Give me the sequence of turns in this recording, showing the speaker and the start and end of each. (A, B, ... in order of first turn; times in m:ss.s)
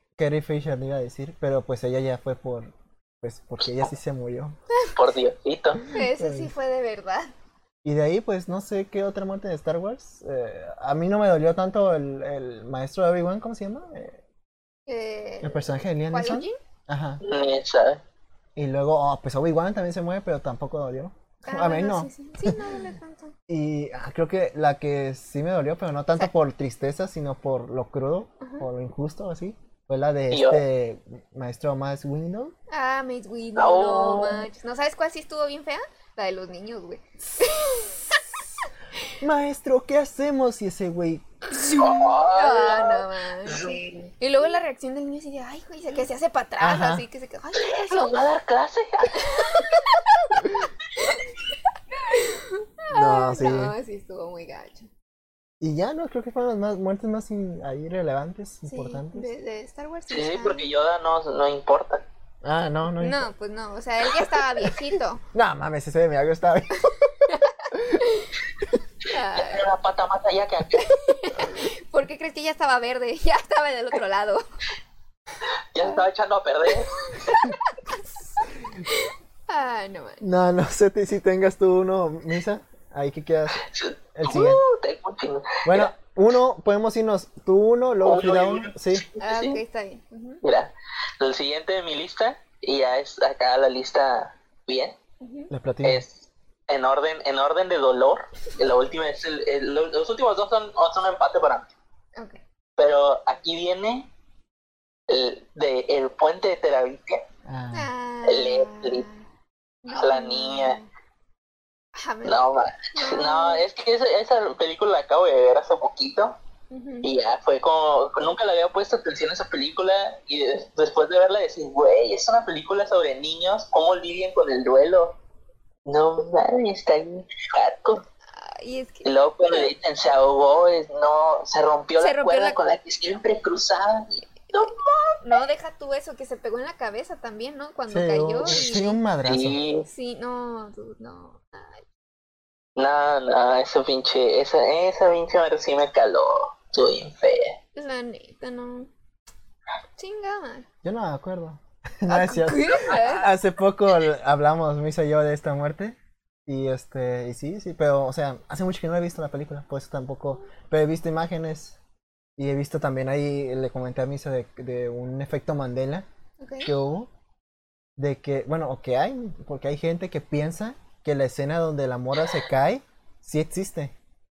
0:00.2-0:04.6 A
0:04.9-0:05.8 B
0:05.9-0:07.3 C
0:05.9-0:06.5 A
0:07.8-0:14.2 A
0:14.9-0:16.6 C
0:15.4-0:17.2 A
0:17.2-0:18.0 B
0:18.6-0:22.9 A
0:21.4-0:23.3 C
0:23.5-0:32.5 A
0:28.4-0:28.7 C
0:30.3-0:30.6 B
0:32.7-0:38.2 C
0:33.6-0:34.4 B
0:39.2-0:42.2 A
0:41.5-0:48.2 C
0:41.8-0:44.1 B
0:46.6-0:47.0 A
0:47.6-0:49.7 B
0:49.1-0:50.5 C
0:51.0-0:51.3 C
0:52.0-0:54.9 C
0:52.9-0:53.7 A
0:55.6-0:59.3 A
0:58.6-1:00.7 C
1:00.1-1:02.0 B
1:02.4-1:03.3 A
1:03.0-1:05.2 C
1:05.3-1:06.9 A
1:07.2-1:09.7 C
1:07.7-1:08.0 A
1:09.3-1:10.9 B
1:10.8-1:14.4 C
1:15.7-1:17.4 B
1:17.0-1:18.1 C
1:18.8-1:20.2 C
1:20.2-1:24.6 A
1:23.6-1:25.9 B
1:25.6-1:29.0 A
1:28.0-1:29.6 B
1:29.2-1:30.4 C
1:30.4-1:35.0 B
1:35.2-1:35.5 C
1:35.5-1:36.0 A
1:35.8-1:41.7 B
1:42.8-1:44.1 B
1:45.1-1:47.2 B
1:47.4-1:47.9 A
1:47.7-1:49.2 C
1:48.2-1:49.0 B
1:49.8-1:50.9 C
1:49.9-1:50.8 B
1:52.0-1:53.6 C
1:52.2-1:56.4 B
1:56.7-1:57.1 C
1:57.0-2:05.2 B
2:05.8-2:08.0 B
2:08.4-2:09.6 C
2:09.0-2:15.2 B
2:12.0-2:12.6 C
2:15.2-2:19.0 C
2:17.9-2:19.6 A
2:19.2-2:19.9 B
2:19.8-2:21.8 C
2:22.8-2:27.6 B
2:27.7-2:28.9 C
2:30.0-2:30.7 C
2:30.8-2:41.8 A
2:32.1-2:33.3 C
2:42.4-2:46.0 A
2:46.4-2:46.7 C
2:46.6-2:47.1 A
2:48.0-2:53.9 A